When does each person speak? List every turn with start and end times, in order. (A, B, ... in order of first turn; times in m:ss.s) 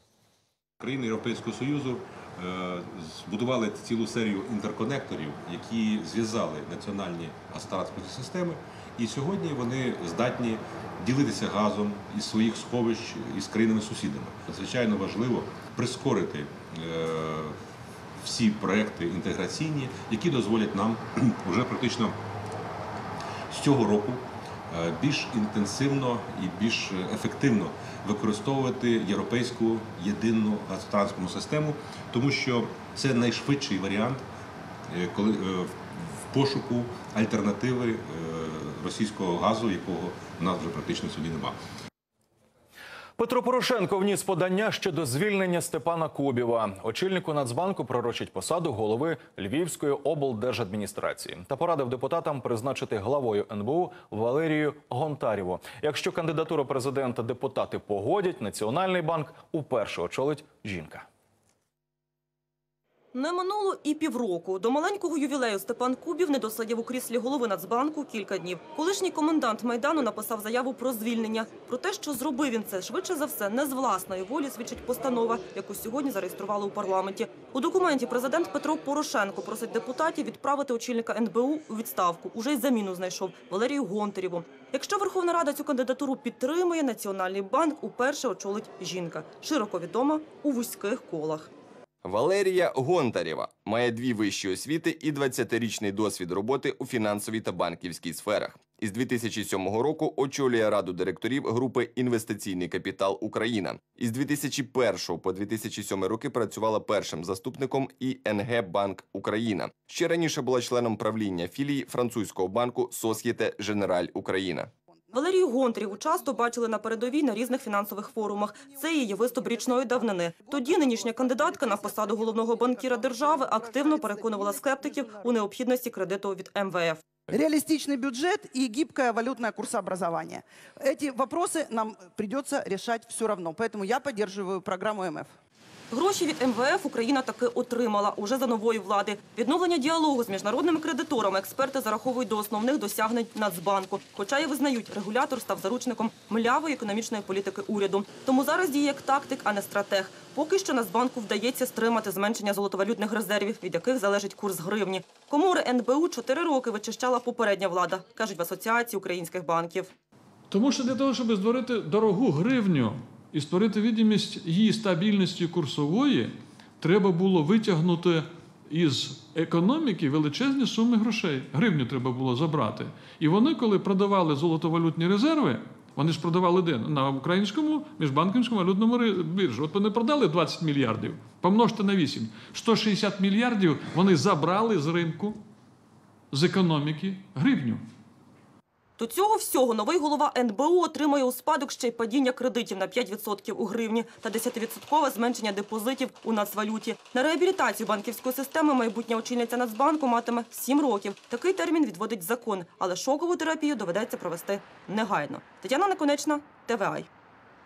0:00.8-0:17.6 A
0:18.2-0:22.2 A
0:23.5-0:34.2 A
0:34.9-0:41.6 A
0:43.2-1:01.0 B
1:03.1-1:31.5 C
1:32.0-1:54.7 D
1:55.1-2:07.0 C
2:00.6-2:05.0 E
2:07.3-2:15.3 E
2:15.9-2:39.9 C
2:40.5-3:05.4 F
3:06.3-3:07.8 F
3:09.0-3:27.1 C